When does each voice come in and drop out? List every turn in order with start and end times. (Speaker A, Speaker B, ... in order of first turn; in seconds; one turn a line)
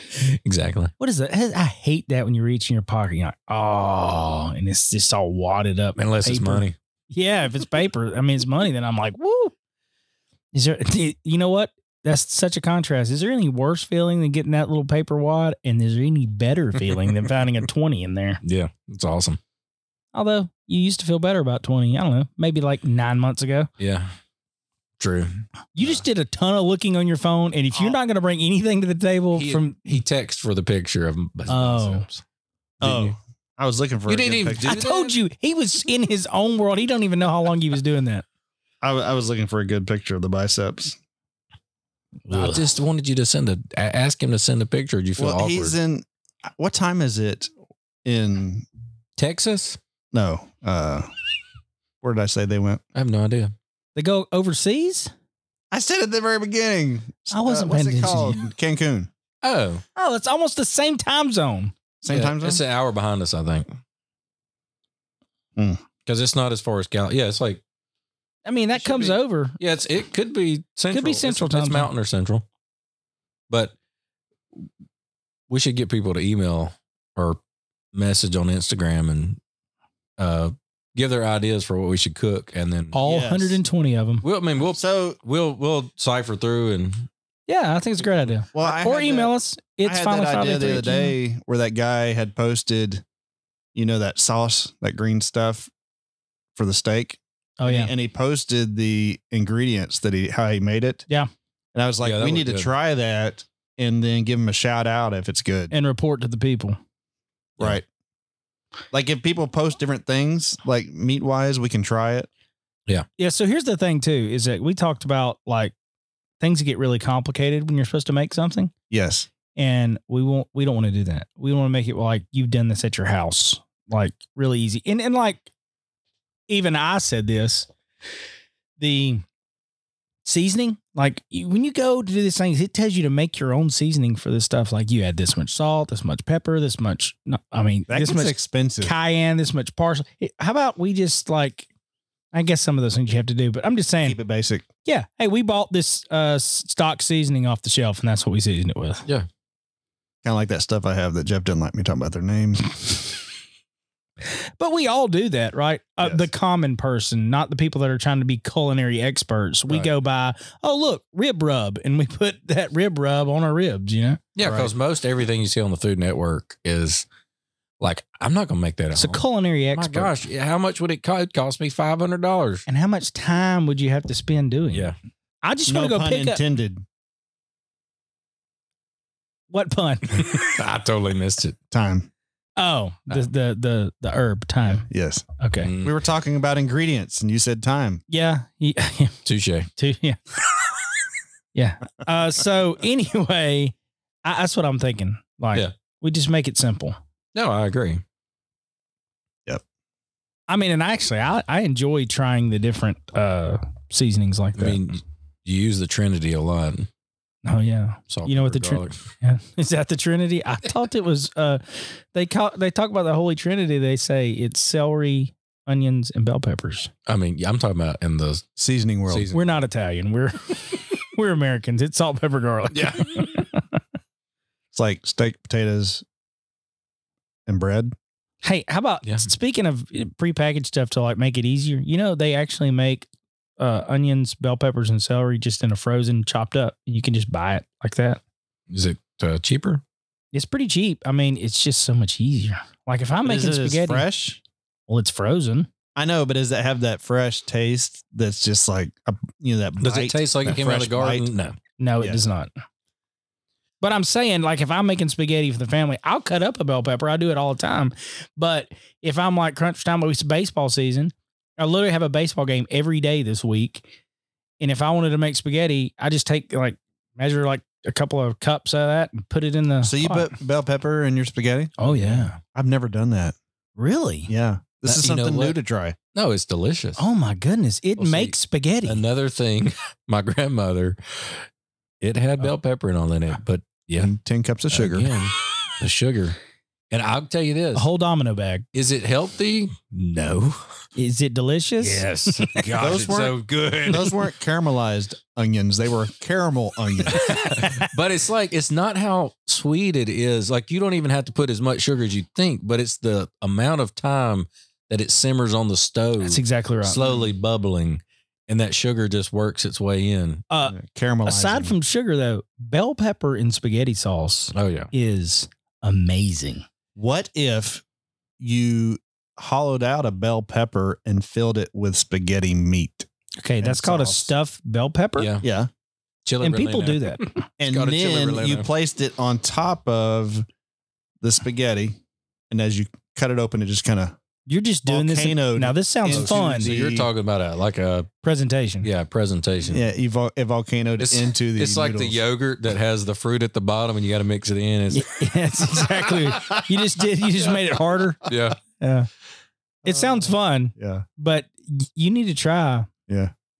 Speaker A: 0.2-0.9
Speaker B: 1.0-9.5
Speaker A: 6.0-6.8
Speaker B: 10.5-18.4
Speaker A: 18.4-19.4
Speaker B: 20.1-23.7
Speaker A: 23.8-24.1
Speaker A: 25.0-25.4
Speaker B: 25.8-30.0
Speaker A: 29.4-32.2
Speaker B: 31.5-32.1
Speaker A: 32.8-33.1
Speaker C: 32.8-34.8
Speaker A: 34.1-35.1
Speaker B: 34.6-38.2
Speaker C: 38.8-41.0
Speaker B: 42.3-42.6
Speaker A: 42.3-45.8
Speaker C: 45.2-47.5
Speaker C: 48.0-48.7
Speaker A: 49.2-49.8
Speaker C: 50.1-51.1
Speaker C: 52.0-52.8
Speaker A: 53.0-53.5
Speaker B: 54.0-55.1
Speaker C: 55.7-59.1
Speaker B: 57.3-58.5
Speaker A: 59.4-59.8
Speaker B: 60.0-61.7
Speaker C: 62.0-62.6
Speaker A: 62.1-63.7
Speaker C: 65.6-65.8
Speaker A: 66.0-67.6
Speaker B: 68.5-69.6
Speaker A: 68.8-72.5
Speaker B: 70.9-71.9
Speaker A: 75.5-77.4
Speaker A: 77.9-79.4
Speaker A: 80.2-83.0
Speaker B: 82.9-84.2
Speaker C: 83.0-83.6
Speaker A: 84.2-87.1
Speaker C: 84.7-85.2
Speaker B: 87.5-91.1
Speaker C: 88.5-89.3
Speaker C: 89.8-93.0
Speaker C: 93.8-95.7
Speaker C: 96.5-101.0
Speaker B: 97.6-97.9
Speaker C: 101.7-105.7
Speaker A: 102.0-102.7
Speaker B: 105.7-106.8
Speaker C: 107.6-107.8
Speaker C: 108.9-112.3
Speaker B: 113.2-115.7
Speaker B: 116.4-118.7
Speaker C: 118.9-119.3
Speaker B: 119.5-125.5
Speaker B: 126.5-127.7
Speaker B: 128.8-129.2
Speaker B: 130.2-141.7
Speaker C: 137.9-138.9
Speaker B: 142.3-144.2
Speaker C: 144.0-144.7
Speaker B: 144.8-149.1
Speaker C: 150.2-152.7
Speaker B: 154.3-164.2
Speaker C: 156.0-156.3
Speaker A: 164.4-167.1
Speaker C: 164.4-164.7
Speaker A: 167.8-169.2
Speaker B: 168.9-170.1
Speaker A: 169.7-172.7
Speaker B: 172.7-174.9
Speaker B: 175.4-176.4
Speaker C: 175.7-176.8
Speaker B: 179.5-180.3
Speaker A: 180.1-181.6
Speaker C: 181.7-182.1
Speaker B: 182.6-184.9
Speaker C: 184.8-185.3
Speaker B: 185.4-185.7
Speaker A: 185.6-185.9
Speaker C: 185.8-188.0
Speaker B: 188.1-189.2
Speaker A: 189.2-189.7
Speaker B: 189.8-190.2
Speaker B: 191.5-193.7
Speaker B: 194.2-197.0
Speaker A: 197.3-198.0
Speaker B: 200.5-204.8
Speaker A: 204.6-206.9
Speaker B: 207.4-216.9
Speaker A: 208.1-209.0
Speaker A: 217.1-218.5
Speaker C: 218.6-219.3
Speaker A: 219.1-219.6
Speaker B: 219.3-223.7
Speaker A: 222.7-223.4
Speaker C: 224.7-226.1
Speaker C: 227.5-227.9
Speaker B: 228.4-233.1
Speaker A: 229.1-229.3
Speaker B: 233.6-238.2
Speaker A: 238.7-239.8
Speaker B: 240.3-244.1
Speaker C: 243.2-244.4
Speaker B: 244.9-245.7
Speaker C: 246.0-251.3
Speaker A: 249.8-251.6
Speaker B: 251.8-252.5
Speaker B: 253.8-263.9
Speaker B: 264.6-270.3
Speaker C: 269.8-271.9
Speaker B: 271.8-272.4
Speaker A: 271.9-272.3
Speaker C: 272.4-273.4
Speaker B: 273.8-274.3
Speaker C: 274.3-276.0
Speaker A: 274.9-275.6
Speaker A: 276.1-277.0
Speaker B: 277.0-279.0
Speaker A: 278.0-281.4
Speaker A: 282.0-284.1
Speaker C: 284.0-285.1
Speaker A: 284.7-286.4
Speaker A: 286.9-287.9
Speaker B: 287.8-288.6
Speaker A: 288.7-290.6
Speaker B: 291.0-292.7
Speaker A: 291.8-294.1
Speaker C: 292.8-297.2
Speaker A: 297.1-310.4
Speaker B: 297.3-297.9
Speaker B: 306.2-307.2
Speaker B: 310.5-316.6
Speaker C: 310.6-311.8
Speaker A: 314.5-314.9
Speaker C: 317.0-317.8
Speaker C: 318.4-323.1
Speaker B: 323.4-325.3
Speaker A: 323.6-324.3
Speaker A: 325.2-325.5
Speaker C: 325.4-325.7
Speaker A: 326.3-328.7
Speaker B: 326.4-327.4
Speaker C: 327.6-330.4
Speaker C: 331.2-332.0
Speaker C: 332.5-334.2
Speaker B: 334.5-336.7
Speaker C: 334.9-337.1
Speaker A: 336.1-338.1
Speaker B: 338.2-338.9
Speaker A: 338.8-339.9
Speaker C: 339.7-342.2
Speaker A: 341.0-345.2
Speaker B: 344.9-349.1
Speaker A: 346.1-346.6
Speaker A: 348.2-348.6
Speaker C: 349.9-351.1
Speaker B: 349.9-352.9
Speaker C: 353.1-353.3